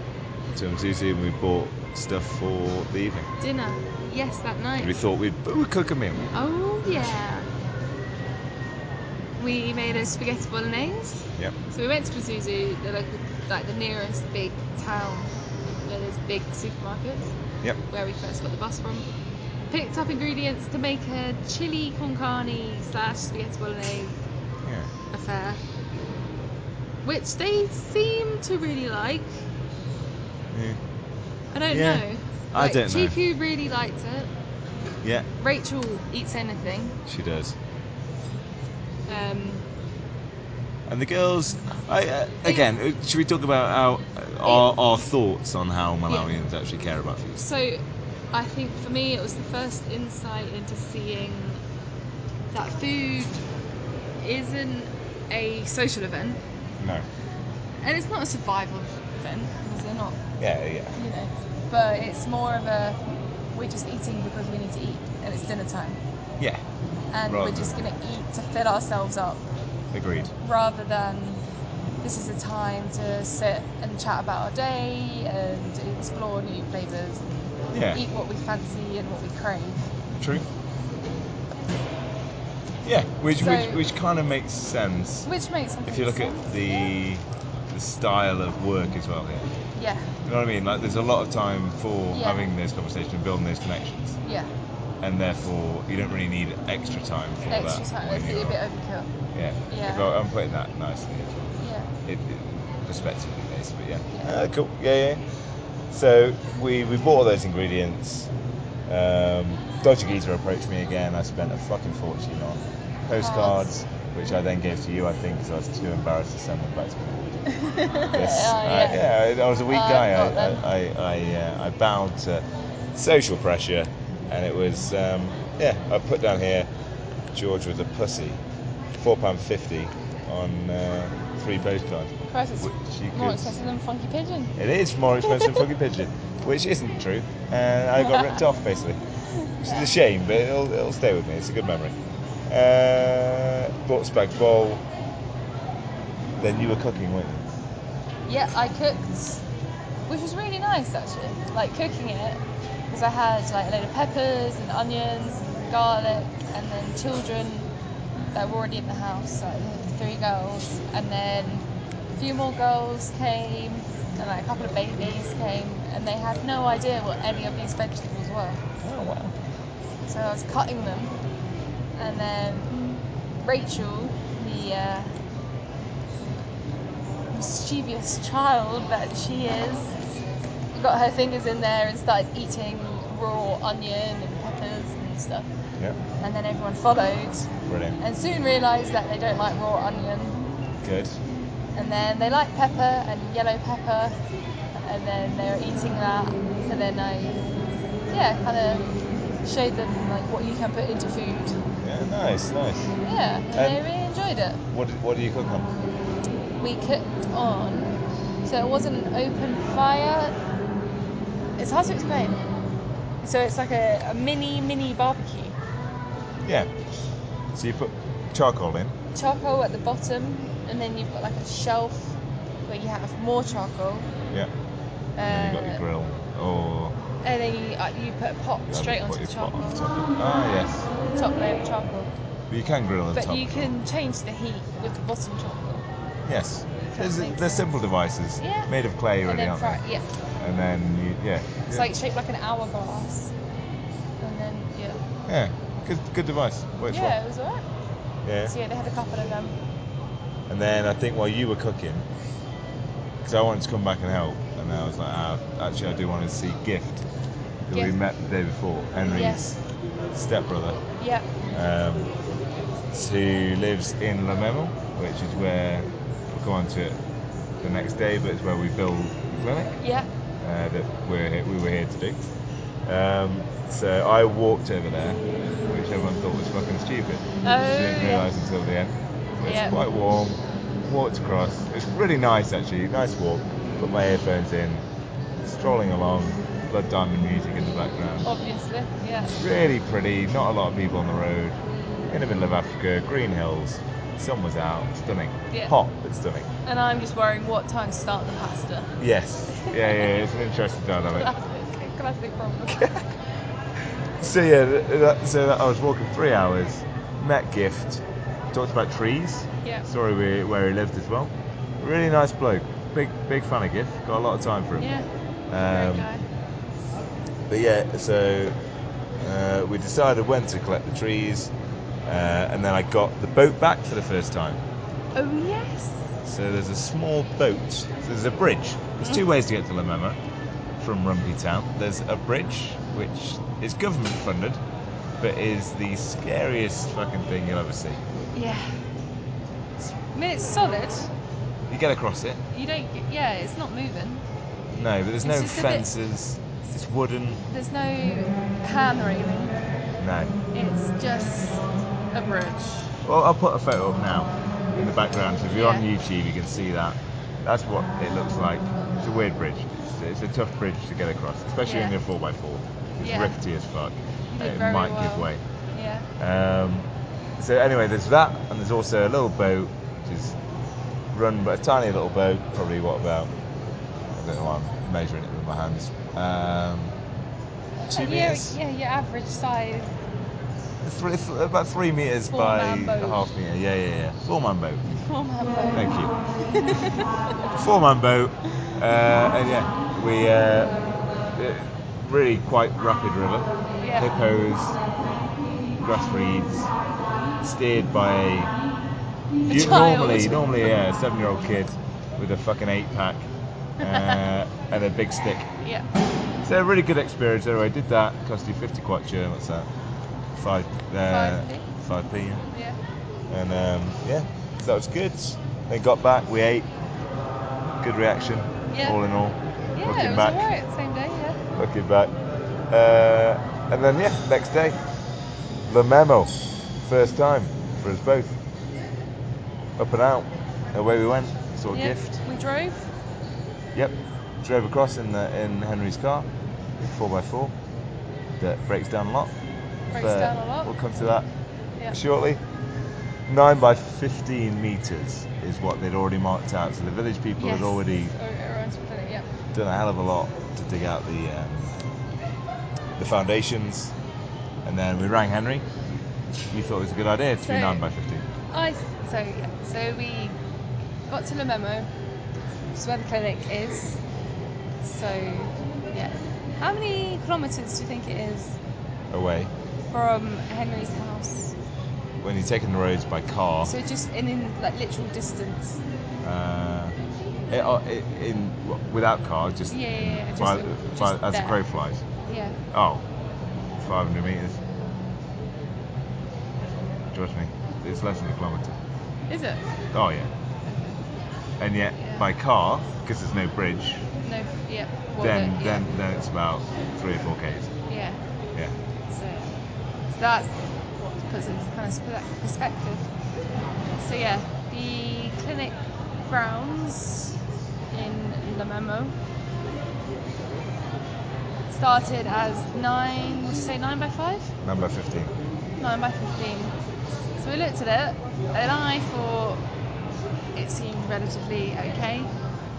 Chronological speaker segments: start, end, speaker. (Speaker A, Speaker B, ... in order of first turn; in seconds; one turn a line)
Speaker A: 0.5-3.3
Speaker B: 3.4-5.0
Speaker A: 4.8-6.3
Speaker B: 6.3-7.5
Speaker B: 9.4-15.3
Speaker B: 15.9-17.4
Speaker B: 17.9-19.1
Speaker B: 19.7-24.2
Speaker A: 24.6-24.9
Speaker B: 25.1-25.6
Speaker B: 27.0-29.4
Speaker A: 30.5-30.8
Speaker B: 31.5-34.3
Speaker A: 31.7-33.2
Speaker B: 35.4-37.0
Speaker A: 37.1-37.6
Speaker B: 39.1-39.6
Speaker A: 40.9-47.4
Speaker B: 44.4-44.8
Speaker B: 46.1-46.4
Speaker B: 47.4-51.6
Speaker B: 52.5-53.4
Speaker B: 54.2-56.4
Speaker A: 56.8-57.0
Speaker B: 57.8-60.2
Speaker A: 60.4-61.0
Speaker B: 61.0-63.0
Speaker B: 63.5-66.0
Speaker B: 67.1-69.4
Speaker A: 67.3-67.8
Speaker A: 69.9-70.3
Speaker B: 70.4-71.4
Speaker B: 72.0-77.2
Speaker A: 77.7-78.0
Speaker B: 77.9-79.9
Speaker A: 80.2-80.5
Speaker A: 82.8-85.3
Speaker B: 83.3-83.8
Speaker B: 85.3-86.9
Speaker A: 85.9-89.5
Speaker B: 89.8-90.1
Speaker A: 90.2-94.2
Speaker B: 92.1-92.5
Speaker B: 94.2-94.5
Speaker A: 95.0-98.6
Speaker B: 97.5-99.1
Speaker A: 99.3-101.5
Speaker B: 99.7-100.1
Speaker B: 101.6-101.9
Speaker A: 102.1-105.2
Speaker B: 104.1-104.4
Speaker A: 105.9-108.3
Speaker A: 108.9-117.5
Speaker B: 113.2-113.7
Speaker B: 117.5-119.1
Speaker A: 118.1-126.7
Speaker B: 119.7-120.6
Speaker A: 127.3-128.4
Speaker A: 128.9-133.5
Speaker B: 132.3-134.6
Speaker A: 134.6-139.0
Speaker B: 135.2-135.6
Speaker B: 138.0-138.4
Speaker B: 139.3-139.9
Speaker A: 139.6-141.9
Speaker A: 142.5-144.8
Speaker A: 146.4-147.5
Speaker B: 148.3-149.4
Speaker B: 150.1-157.7
Speaker B: 158.3-168.6
Speaker A: 168.8-169.3
Speaker B: 170.1-171.2
Speaker B: 172.0-172.8
Speaker B: 173.4-175.1
Speaker B: 177.3-180.2
Speaker B: 180.7-185.5
Speaker B: 186.2-190.4
Speaker A: 187.7-188.0
Speaker A: 190.8-191.2
Speaker B: 191.8-194.2
Speaker B: 194.8-197.4
Speaker B: 198.1-198.9
Speaker B: 199.4-201.6
Speaker A: 201.8-202.9
Speaker B: 203.0-204.6
Speaker A: 203.5-203.8
Speaker A: 204.7-205.7
Speaker B: 206.6-210.4
Speaker B: 211.6-212.4
Speaker B: 213.2-215.6
Speaker A: 217.5-219.0
Speaker B: 219.2-224.1
Speaker B: 225.2-225.8
Speaker A: 225.3-226.9
Speaker B: 227.2-229.9
Speaker A: 228.7-230.9
Speaker B: 231.1-232.1
Speaker A: 232.5-233.7
Speaker B: 233.1-235.8
Speaker A: 236.3-239.8
Speaker B: 236.8-237.7
Speaker B: 238.4-238.7
Speaker B: 239.2-240.1
Speaker A: 240.4-241.9
Speaker B: 241.7-243.3
Speaker B: 244.2-245.0
Speaker A: 245.3-247.2
Speaker B: 246.9-247.7
Speaker A: 248.2-248.6
Speaker B: 248.4-249.6
Speaker A: 250.5-252.1
Speaker A: 253.2-257.0
Speaker A: 257.7-259.6
Speaker B: 259.0-259.6
Speaker A: 260.1-260.8
Speaker B: 261.0-261.3
Speaker A: 261.5-262.1
Speaker A: 262.9-267.0
Speaker A: 267.6-269.8
Speaker B: 269.8-270.1
Speaker A: 270.4-272.2
Speaker A: 272.9-284.8
Speaker B: 277.4-278.3
Speaker B: 279.4-279.8
Speaker A: 285.4-288.3
Speaker B: 288.2-289.4
Speaker A: 289.3-291.6
Speaker A: 292.1-296.5
Speaker B: 296.6-299.0
Speaker A: 299.0-301.3
Speaker B: 299.5-300.2
Speaker B: 301.0-303.1
Speaker A: 302.7-303.0
Speaker A: 304.2-314.9
Speaker B: 314.8-315.1
Speaker A: 315.5-316.1
Speaker B: 315.7-316.2
Speaker A: 317.5-318.5
Speaker A: 319.2-321.5
Speaker A: 322.1-324.6
Speaker B: 325.1-326.1
Speaker A: 326.2-330.2
Speaker A: 330.8-334.6
Speaker A: 335.2-338.0
Speaker B: 338.3-338.9
Speaker B: 339.8-341.1
Speaker A: 341.7-342.4
Speaker B: 342.5-344.2
Speaker A: 344.7-347.4
Speaker B: 345.2-345.9
Speaker B: 347.5-349.6
Speaker A: 350.0-350.4
Speaker B: 350.5-352.9
Speaker A: 353.0-365.4
Speaker B: 355.5-355.9
Speaker B: 361.6-362.0
Speaker B: 363.0-363.4
Speaker B: 364.3-366.1
Speaker A: 366.2-366.9
Speaker A: 367.4-370.4
Speaker A: 371.1-373.3
Speaker A: 374.1-376.9
Speaker B: 377.8-380.0
Speaker A: 377.9-378.6
Speaker A: 380.8-385.0
Speaker B: 382.3-383.2
Speaker B: 384.9-387.1
Speaker A: 385.7-386.1
Speaker A: 387.6-390.8
Speaker A: 391.3-394.8
Speaker B: 393.8-394.2
Speaker A: 395.8-396.7
Speaker A: 397.4-398.5
Speaker B: 399.4-400.7
Speaker A: 399.4-403.3
Speaker B: 403.8-404.3
Speaker A: 403.8-405.5
Speaker B: 405.6-405.9
Speaker A: 406.4-409.7
Speaker A: 410.4-412.5
Speaker B: 411.1-411.7
Speaker B: 412.5-412.8
Speaker A: 413.3-416.7
Speaker A: 417.8-420.5
Speaker B: 418.7-419.0
Speaker B: 419.8-421.4
Speaker A: 421.6-422.1
Speaker A: 422.7-424.8
Speaker A: 425.7-428.4
Speaker A: 429.8-432.2
Speaker B: 431.7-432.9
Speaker A: 433.7-437.5
Speaker A: 438.4-439.3
Speaker A: 439.9-441.3
Speaker B: 439.9-440.7
Speaker A: 441.9-442.4
Speaker A: 443.3-448.1
Speaker B: 447.4-449.3
Speaker A: 449.5-451.8
Speaker A: 453.0-453.9
Speaker A: 454.6-455.6
Speaker A: 456.5-458.2
Speaker B: 457.4-457.8
Speaker B: 458.5-460.4
Speaker B: 461.1-461.9
Speaker B: 462.7-464.0
Speaker B: 464.8-468.6
Speaker A: 469.1-469.5
Speaker B: 469.9-471.5
Speaker A: 472.2-473.7
Speaker B: 473.7-475.8
Speaker A: 476.2-476.9
Speaker A: 477.5-482.0
Speaker B: 479.7-481.6
Speaker B: 482.3-482.6
Speaker A: 482.7-483.0
Speaker A: 483.8-484.6
Speaker A: 487.1-488.8
Speaker B: 489.3-489.6
Speaker A: 489.9-490.3
Speaker B: 490.7-490.9
Speaker A: 491.6-494.1
Speaker B: 492.0-492.3
Speaker B: 494.2-495.8
Speaker A: 495.2-497.7
Speaker B: 497.9-498.2
Speaker B: 499.1-499.5
Speaker B: 500.1-503.1
Speaker B: 504.0-507.4
Speaker B: 507.9-509.1
Speaker B: 511.7-514.5
Speaker A: 514.6-515.3
Speaker B: 515.8-516.8
Speaker B: 517.4-519.6
Speaker B: 520.5-522.3